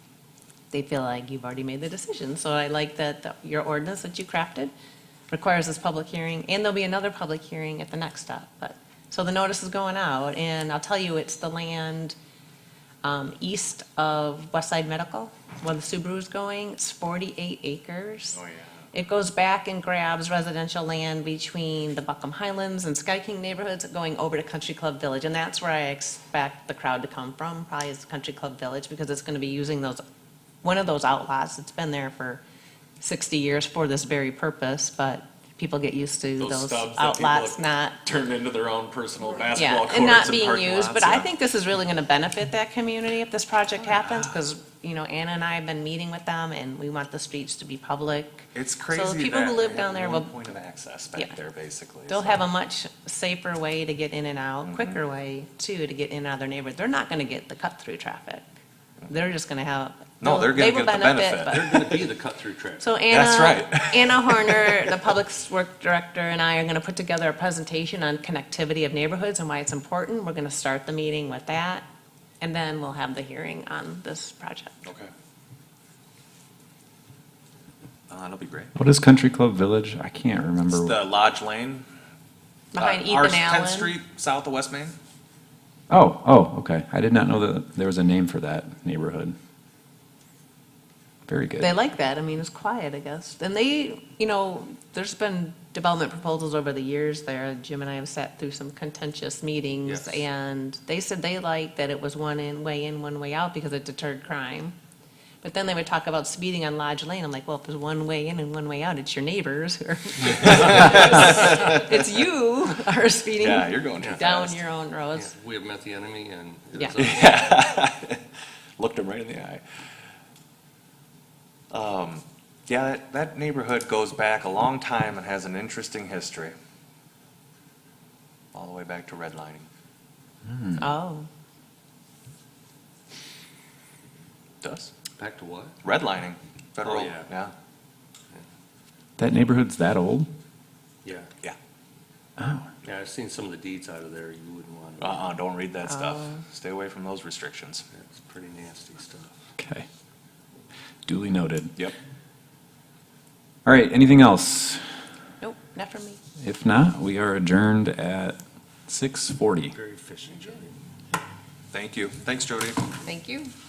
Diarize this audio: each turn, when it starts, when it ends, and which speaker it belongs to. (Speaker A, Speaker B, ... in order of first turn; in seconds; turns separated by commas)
Speaker A: 0.7-4.7, Speaker A: 5.3-12.1, Speaker A: 13.0-18.4, Speaker B: 18.3-18.9, Speaker A: 18.9-30.0, Speaker A: 30.6-32.4, Speaker A: 33.0-38.0, Speaker B: 36.4-41.3, Speaker A: 39.5-50.3, Speaker B: 43.8-44.3, Speaker B: 48.5-52.5, Speaker A: 52.1-58.5, Speaker B: 54.6-55.0, Speaker A: 59.1-61.7, Speaker B: 60.2-62.1, Speaker C: 61.5-62.9, Speaker A: 62.8-71.8, Speaker B: 63.1-65.0, Speaker A: 72.4-74.8, Speaker B: 74.8-75.1, Speaker B: 78.1-78.7, Speaker D: 78.8-81.0, Speaker B: 80.7-81.8, Speaker A: 82.7-83.9, Speaker B: 82.8-85.0, Speaker D: 85.9-89.3, Speaker D: 91.3-91.7, Speaker A: 91.6-104.8, Speaker C: 99.8-100.2, Speaker A: 105.4-115.3, Speaker B: 110.2-112.0, Speaker B: 113.4-114.6, Speaker C: 114.0-114.2, Speaker C: 115.1-117.4, Speaker B: 117.0-118.2, Speaker B: 118.8-119.8, Speaker B: 121.7-126.5, Speaker B: 128.5-129.7, Speaker D: 130.5-130.8, Speaker A: 130.8-131.3, Speaker B: 134.6-134.9, Speaker C: 135.1-135.8, Speaker B: 135.8-137.5, Speaker C: 136.8-137.3, Speaker D: 139.2-140.3, Speaker C: 141.0-141.3, Speaker D: 142.4-142.7, Speaker C: 142.8-145.3, Speaker B: 145.0-147.8, Speaker A: 145.9-146.4, Speaker C: 147.9-149.4, Speaker D: 149.6-149.8, Speaker D: 151.1-151.7, Speaker D: 153.6-154.8, Speaker A: 155.4-156.2, Speaker D: 156.4-159.8, Speaker C: 159.7-160.8, Speaker B: 161.7-163.0, Speaker A: 163.0-163.5